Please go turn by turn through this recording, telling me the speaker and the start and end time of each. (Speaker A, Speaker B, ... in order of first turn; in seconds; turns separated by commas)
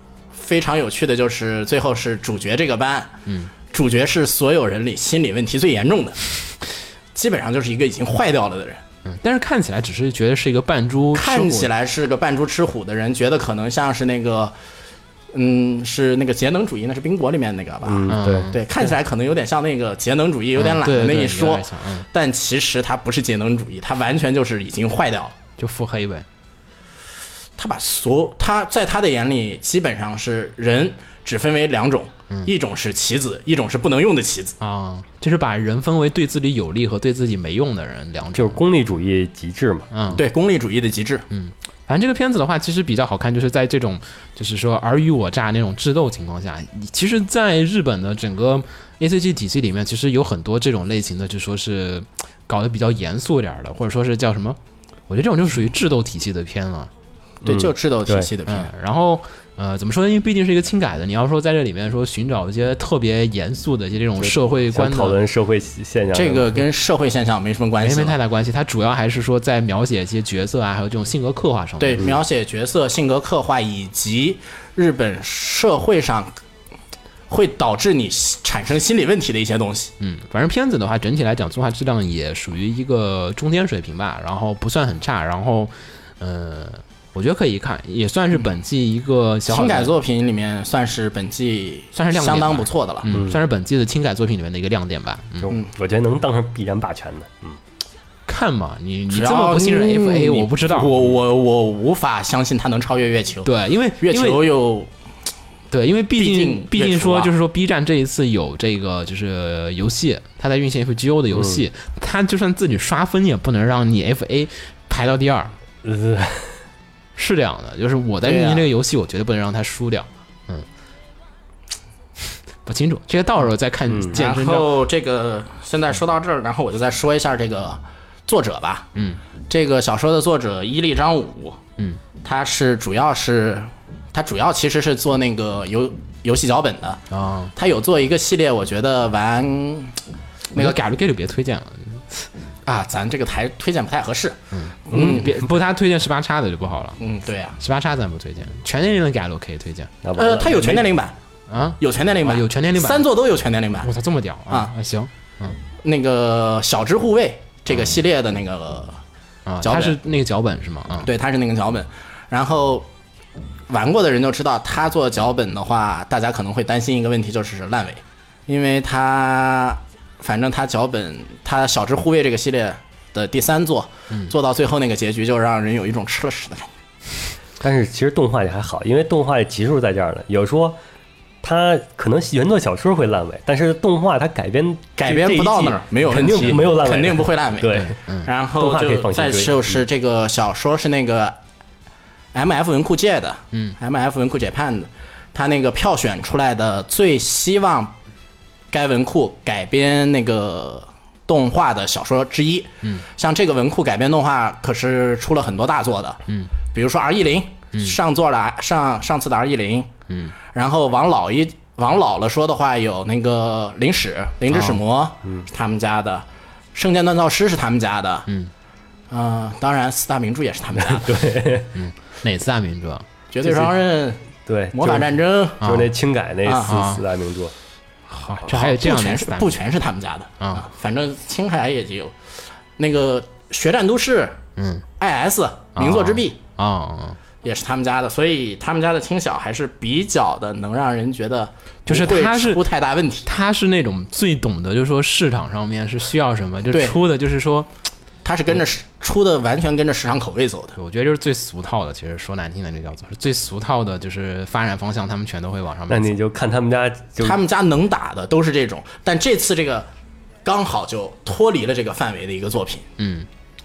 Speaker A: 0.3-3.1, Speaker B: 3.3-3.5, Speaker A: 3.7-6.5, Speaker A: 7.2-8.8, Speaker B: 9.1-11.7, Speaker A: 11.1-14.5, Speaker A: 15.3-25.4, Speaker C: 17.9-18.5, Speaker B: 18.1-18.6, Speaker B: 20.6-22.1, Speaker B: 25.6-26.3, Speaker A: 27.6-34.6, Speaker B: 34.6-38.6, Speaker C: 38.3-39.9, Speaker B: 39.9-40.2, Speaker A: 40.1-41.3, Speaker B: 41.3-56.9, Speaker C: 57.4-58.3, Speaker A: 57.5-58.7, Speaker B: 58.5-65.2, Speaker C: 64.2-66.6, Speaker A: 66.1-68.2, Speaker B: 67.8-72.1, Speaker A: 71.8-76.3, Speaker A: 77.3-79.9, Speaker B: 80.0-89.9, Speaker A: 89.5-93.1, Speaker B: 91.9-95.5, Speaker C: 93.1-93.4, Speaker C: 95.4-97.6, Speaker B: 98.3-101.0, Speaker A: 99.1-104.9, Speaker B: 103.4-104.5, Speaker B: 105.7-115.5, Speaker A: 106.2-107.3, Speaker C: 111.3-111.6, Speaker C: 115.8-116.6, Speaker B: 117.2-120.7, Speaker A: 118.2-118.7, Speaker B: 122.7-124.8, Speaker C: 123.9-124.2, Speaker A: 124.1-128.9, Speaker B: 128.9-129.2, Speaker A: 129.5-131.6, Speaker A: 132.2-137.0, Speaker B: 137.1-137.5, Speaker A: 137.6-140.0, Speaker B: 140.5-142.3, Speaker A: 142.7-145.4, Speaker B: 144.5-147.0, Speaker A: 147.0-147.6, Speaker B: 147.6-149.9, Speaker C: 150.0-150.9, Speaker A: 150.2-151.2, Speaker B: 151.5-153.1, Speaker A: 151.8-153.9, Speaker B: 153.8-155.6, Speaker A: 155.8-159.0, Speaker B: 157.7-158.0, Speaker B: 159.5-161.1, Speaker A: 159.6-160.0, Speaker A: 161.0-162.9, Speaker A: 163.7-176.7, Speaker C: 177.6-180.8, Speaker C: 181.4-188.0, Speaker A: 185.0-191.4, Speaker B: 187.8-188.3, Speaker C: 188.6-189.8, Speaker A: 192.3-197.9, Speaker A: 198.7-209.9, Speaker B: 210.1-210.3, Speaker A: 210.5-218.3, Speaker B: 214.5-214.8, Speaker A: 219.1-221.2, Speaker C: 220.8-221.7, Speaker B: 221.7-223.7, Speaker A: 223.3-225.7, Speaker C: 224.5-227.5, Speaker B: 225.6-225.9, Speaker A: 226.4-226.9, Speaker B: 226.7-227.0, Speaker B: 228.1-229.6, Speaker A: 228.5-232.1, Speaker B: 230.4-230.7, Speaker A: 232.8-234.4, Speaker B: 234.6-234.8, Speaker A: 235.0-236.4, Speaker B: 235.8-237.2, Speaker A: 237.4-243.3, Speaker B: 241.9-242.6, Speaker B: 243.3-247.7, Speaker A: 246.7-247.0, Speaker A: 248.2-250.8, Speaker B: 250.8-256.1, Speaker C: 255.9-257.4, Speaker A: 257.2-259.9, Speaker A: 260.4-262.9, Speaker B: 263.0-263.3